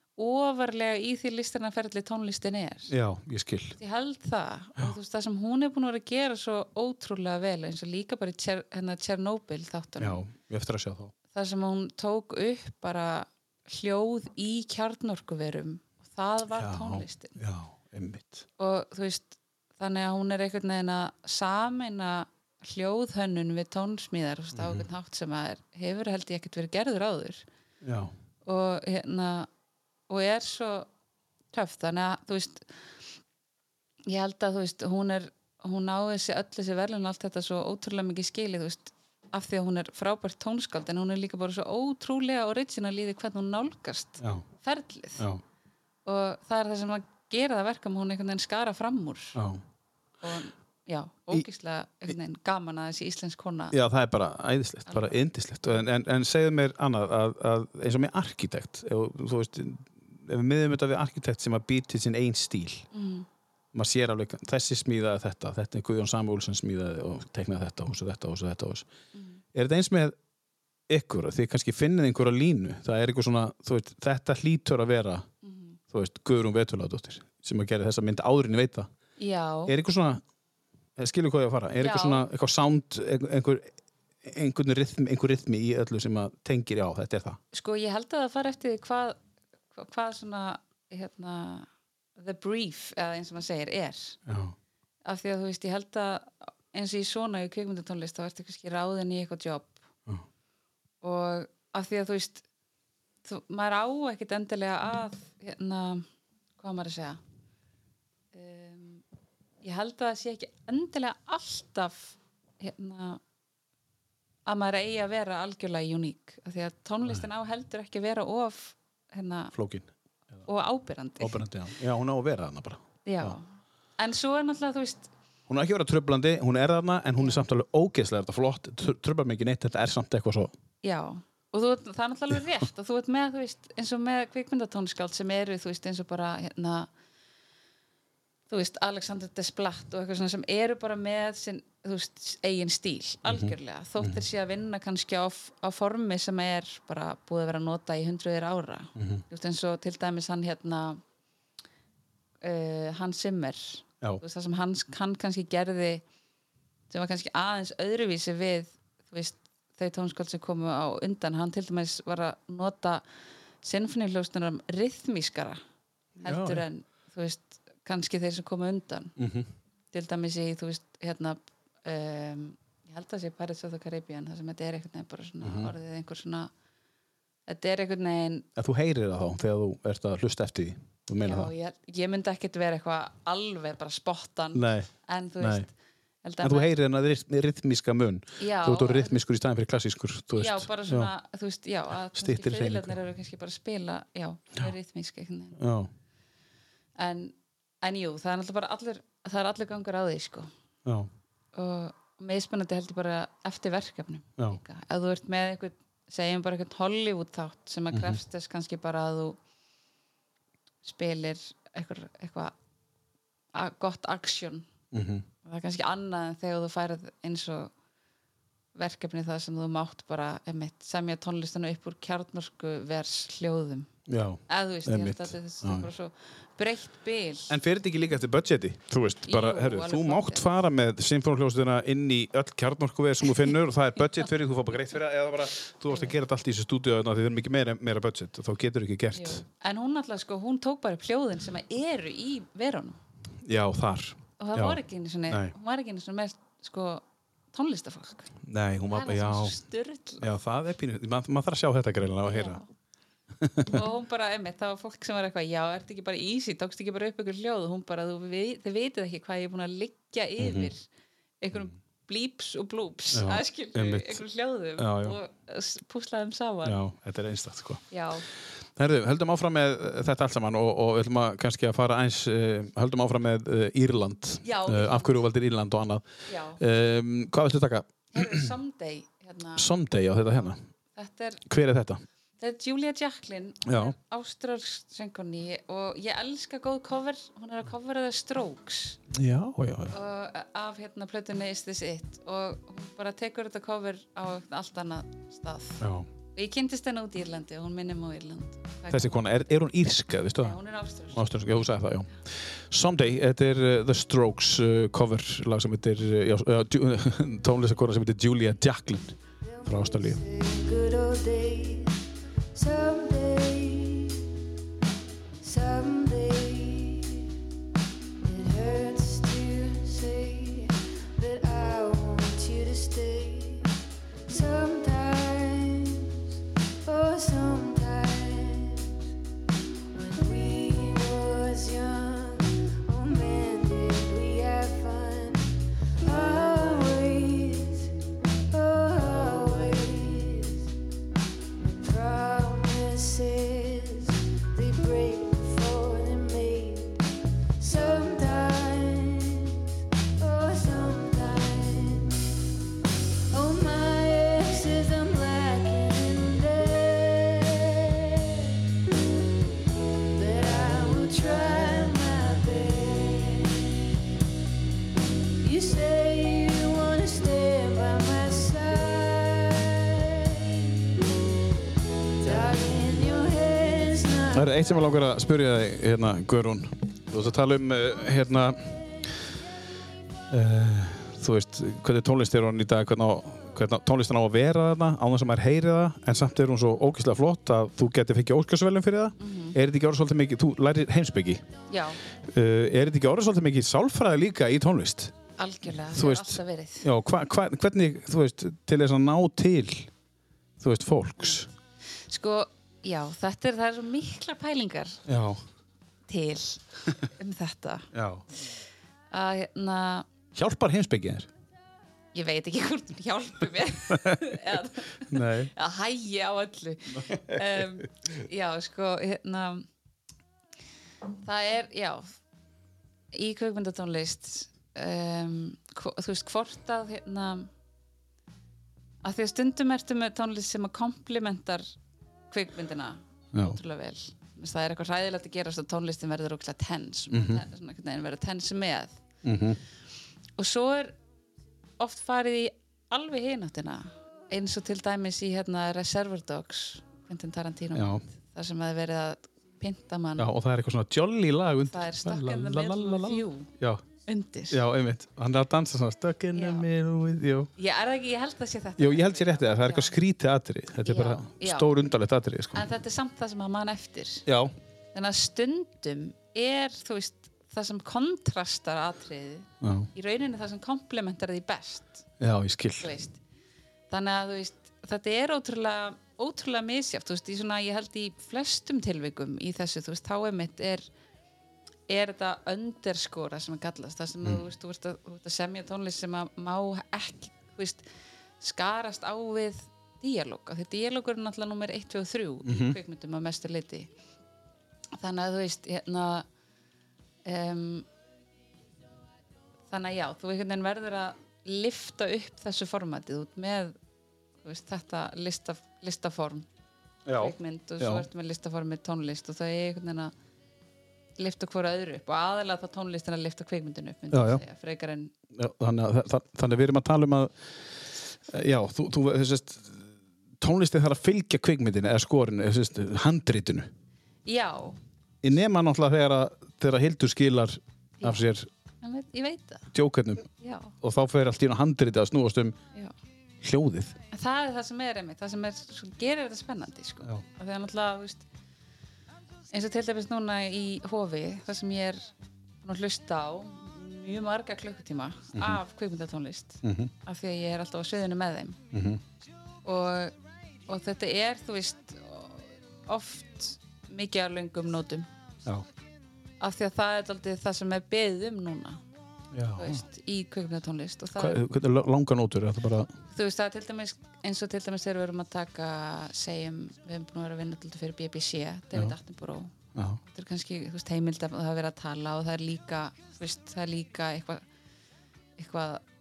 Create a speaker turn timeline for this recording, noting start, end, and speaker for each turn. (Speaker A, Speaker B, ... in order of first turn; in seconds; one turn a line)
Speaker A: 0.2-2.9
Speaker B: 2.9-3.8
Speaker A: 3.8-10.2
Speaker B: 10.0-11.1
Speaker A: 11.3-17.4
Speaker B: 16.5-18.5
Speaker A: 18.6-27.4
Speaker B: 24.5-24.9
Speaker B: 27.8-28.1
Speaker A: 28.4-29.5
Speaker A: 30.1-30.9
Speaker A: 31.5-32.7
Speaker A: 34.1-45.3
Speaker B: 44.2-44.5
Speaker A: 46.0-49.4
Speaker B: 49.4-49.6
Speaker A: 50.2-53.8
Speaker B: 53.7-62.9
Speaker A: 54.9-55.2
Speaker A: 62.9-63.3
Speaker B: 63.7-68.9
Speaker A: 69.1-69.4
Speaker B: 69.5-70.2
Speaker B: 70.9-75.3
Speaker A: 75.4-75.8
Speaker B: 75.9-78.9
Speaker A: 79.2-79.7
Speaker B: 79.7-80.2
Speaker B: 81.0-83.7
Speaker A: 81.8-82.2
Speaker B: 84.2-87.4
Speaker A: 87.5-89.2
Speaker A: 89.7-94.2
Speaker B: 94.3-94.5
Speaker A: 95.0-99.8
Speaker A: 101.0-102.5
Speaker A: 103.2-106.0
Speaker A: 106.6-107.2
Speaker A: 108.3-109.0
Speaker A: 109.6-113.2
Speaker A: 114.5-119.5
Speaker B: 119.5-120.5
Speaker A: 120.5-121.4
Speaker B: 121.2-123.4
Speaker A: 123.1-125.1
Speaker B: 125.5-130.5
Speaker A: 127.2-127.4
Speaker A: 130.8-136.9
Speaker A: 138.5-151.0
Speaker B: 143.3-144.2
Speaker B: 149.0-149.2
Speaker A: 152.4-156.0
Speaker A: 156.9-163.0
Speaker A: 163.6-165.6
Speaker B: 166.2-166.7
Speaker A: 166.2-169.1
Speaker B: 169.2-169.5
Speaker A: 169.9-176.5
Speaker B: 175.4-175.7
Speaker A: 177.5-178.5
Speaker B: 178.6-181.5
Speaker A: 181.2-185.7
Speaker B: 184.5-184.9
Speaker B: 185.4-185.7
Speaker A: 186.2-186.7
Speaker B: 186.4-191.1
Speaker A: 188.4-189.2
Speaker A: 190.4-195.6
Speaker B: 192.1-193.0
Speaker B: 195.6-195.9
Speaker A: 197.0-200.5
Speaker A: 201.6-209.4
Speaker B: 207.9-208.2
Speaker A: 210.8-212.5
Speaker A: 213.5-214.7
Speaker B: 214.9-215.3
Speaker A: 215.4-217.7
Speaker A: 218.8-223.9
Speaker B: 224.1-225.9
Speaker A: 224.5-227.6
Speaker B: 227.5-239.4
Speaker A: 229.3-230.4
Speaker A: 239.1-243.0
Speaker B: 243.4-245.5
Speaker A: 244.4-248.3
Speaker B: 248.4-249.6
Speaker A: 248.9-250.2
Speaker B: 250.2-252.6
Speaker A: 252.3-252.7
Speaker B: 253.4-253.8
Speaker A: 253.7-260.9
Speaker B: 260.4-260.7
Speaker A: 261.4-266.8
Speaker B: 263.1-264.2
Speaker B: 264.8-265.2
Speaker B: 266.6-267.8
Speaker A: 267.9-268.3
Speaker B: 268.8-276.0
Speaker A: 274.4-275.2
Speaker A: 276.3-276.6
Speaker B: 276.6-278.5
Speaker A: 278.1-279.7
Speaker B: 279.6-280.6
Speaker A: 281.0-281.4
Speaker B: 281.5-282.0
Speaker A: 282.4-289.0
Speaker B: 283.7-283.9
Speaker B: 289.1-290.0
Speaker A: 289.9-295.8
Speaker B: 295.8-296.1
Speaker A: 296.4-299.2
Speaker B: 298.9-300.6
Speaker A: 300.4-301.3
Speaker B: 301.1-302.1
Speaker B: 302.7-310.2
Speaker C: 309.4-312.0
Speaker C: 312.5-314.2
Speaker C: 315.4-317.3
Speaker C: 318.2-323.7
Speaker C: 324.3-326.2
Speaker C: 326.8-328.9
Speaker C: 329.9-337.9
Speaker C: 338.5-340.7
Speaker C: 341.8-347.0
Speaker C: 347.6-349.6
Speaker C: 350.2-352.2
Speaker C: 353.3-358.6
Speaker C: 360.1-363.7
Speaker C: 365.4-371.1
Speaker C: 372.2-374.8
Speaker B: 374.3-378.8
Speaker B: 380.3-391.5
Speaker A: 389.2-389.6
Speaker A: 391.7-392.0
Speaker B: 392.3-395.1
Speaker A: 395.4-396.9
Speaker B: 395.8-399.9
Speaker B: 400.6-401.5
Speaker A: 402.1-405.0
Speaker B: 405.1-405.4
Speaker A: 406.1-407.9
Speaker B: 407.9-408.2
Speaker A: 409.1-410.1
Speaker B: 410.3-411.3
Speaker A: 412.1-419.7
Speaker B: 413.9-414.2
Speaker B: 415.1-415.5
Speaker B: 417.0-417.7
Speaker A: 421.2-422.2
Speaker A: 423.1-427.5
Speaker A: 429.0-431.7
Speaker A: 432.3-439.0
Speaker B: 433.3-433.6
Speaker B: 437.1-437.4
Speaker B: 439.2-439.6
Speaker A: 440.4-441.0
Speaker A: 441.8-450.3
Speaker B: 447.7-448.0
Speaker B: 450.2-453.8
Speaker A: 451.7-453.5
Speaker A: 454.1-454.6
Speaker B: 454.5-457.5
Speaker A: 456.3-456.7
Speaker A: 457.6-459.9
Speaker B: 458.8-462.7
Speaker A: 460.8-461.7
Speaker A: 462.5-464.3
Speaker B: 464.3-464.5
Speaker A: 464.9-472.1
Speaker B: 469.6-469.9
Speaker B: 472.2-472.9
Speaker A: 472.8-473.2
Speaker A: 473.9-480.9
Speaker A: 481.9-487.8
Speaker A: 488.4-493.9
Speaker B: 492.4-492.8
Speaker A: 495.0-496.3
Speaker A: 497.2-497.9
Speaker A: 499.7-503.8
Speaker A: 504.4-506.5
Speaker B: 507.1-508.1
Speaker A: 507.1-510.1
Speaker A: 511.2-515.1
Speaker B: 514.1-514.4
Speaker B: 515.3-517.3
Speaker B: 518.3-519.9
Speaker B: 520.4-523.7
Speaker A: 524.3-524.8
Speaker B: 525.2-528.5
Speaker A: 528.8-529.7
Speaker B: 529.7-530.3
Speaker A: 530.4-530.7
Speaker B: 530.8-532.6
Speaker B: 533.4-534.0
Speaker A: 534.1-538.2
Speaker A: 539.5-542.1
Speaker A: 542.6-548.6
Speaker B: 545.3-545.6
Speaker B: 546.6-546.9
Speaker B: 548.7-549.0
Speaker A: 549.6-550.1
Speaker A: 550.7-555.1
Speaker A: 556.4-558.8
Speaker B: 559.3-559.8
Speaker A: 559.6-561.4
Speaker B: 561.1-563.0
Speaker A: 563.1-574.4
Speaker B: 569.7-570.0
Speaker A: 575.4-575.8